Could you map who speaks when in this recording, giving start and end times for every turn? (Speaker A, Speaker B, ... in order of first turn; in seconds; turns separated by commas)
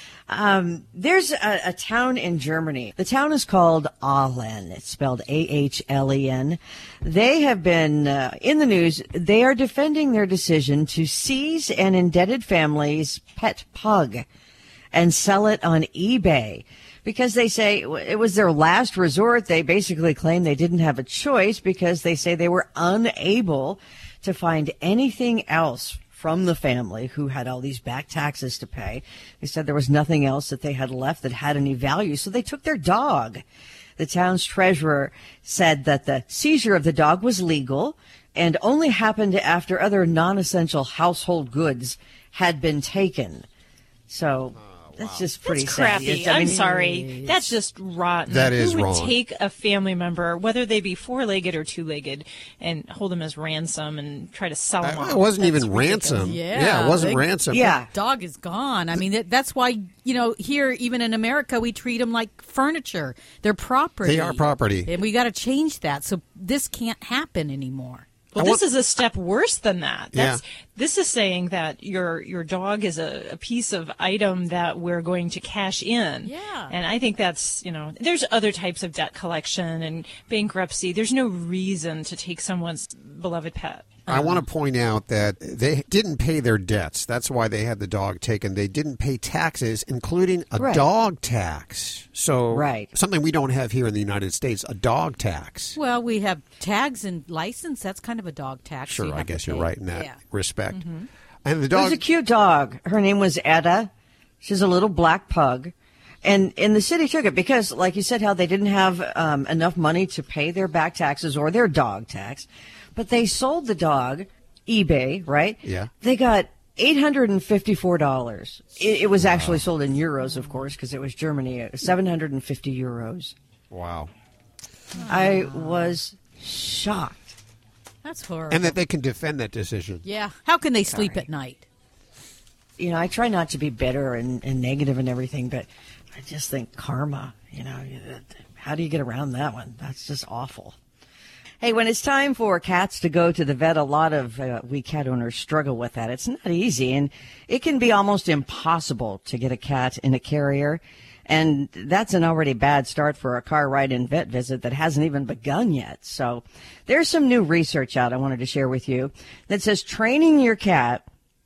Speaker A: 0.3-14.3, Speaker A: 14.9-33.4, Speaker A: 34.0-43.5, Speaker A: 44.1-46.9, Speaker B: 44.5-45.3, Speaker C: 45.5-56.4, Speaker D: 46.5-47.5, Speaker B: 48.3-49.2, Speaker B: 54.8-57.8, Speaker D: 56.2-68.1, Speaker A: 57.5-57.9, Speaker B: 64.0-64.9, Speaker C: 68.3-84.1, Speaker B: 68.4-68.6, Speaker B: 70.1-70.4, Speaker D: 76.2-76.7, Speaker B: 84.1-95.8, Speaker D: 84.1-84.4, Speaker A: 90.6-90.8, Speaker A: 92.5-92.9, Speaker D: 95.8-100.2, Speaker B: 98.9-100.9, Speaker D: 100.7-101.0, Speaker B: 101.5-102.0, Speaker A: 101.7-103.9, Speaker A: 104.4-105.7, Speaker A: 106.2-123.3, Speaker B: 115.6-115.9, Speaker B: 119.2-119.7, Speaker D: 120.3-120.6, Speaker B: 123.7-124.1, Speaker D: 125.0-126.0, Speaker A: 125.1-127.3, Speaker D: 128.0-128.8, Speaker B: 128.5-130.1, Speaker D: 130.0-131.7, Speaker B: 130.9-131.3, Speaker A: 132.8-140.8, Speaker A: 141.6-161.1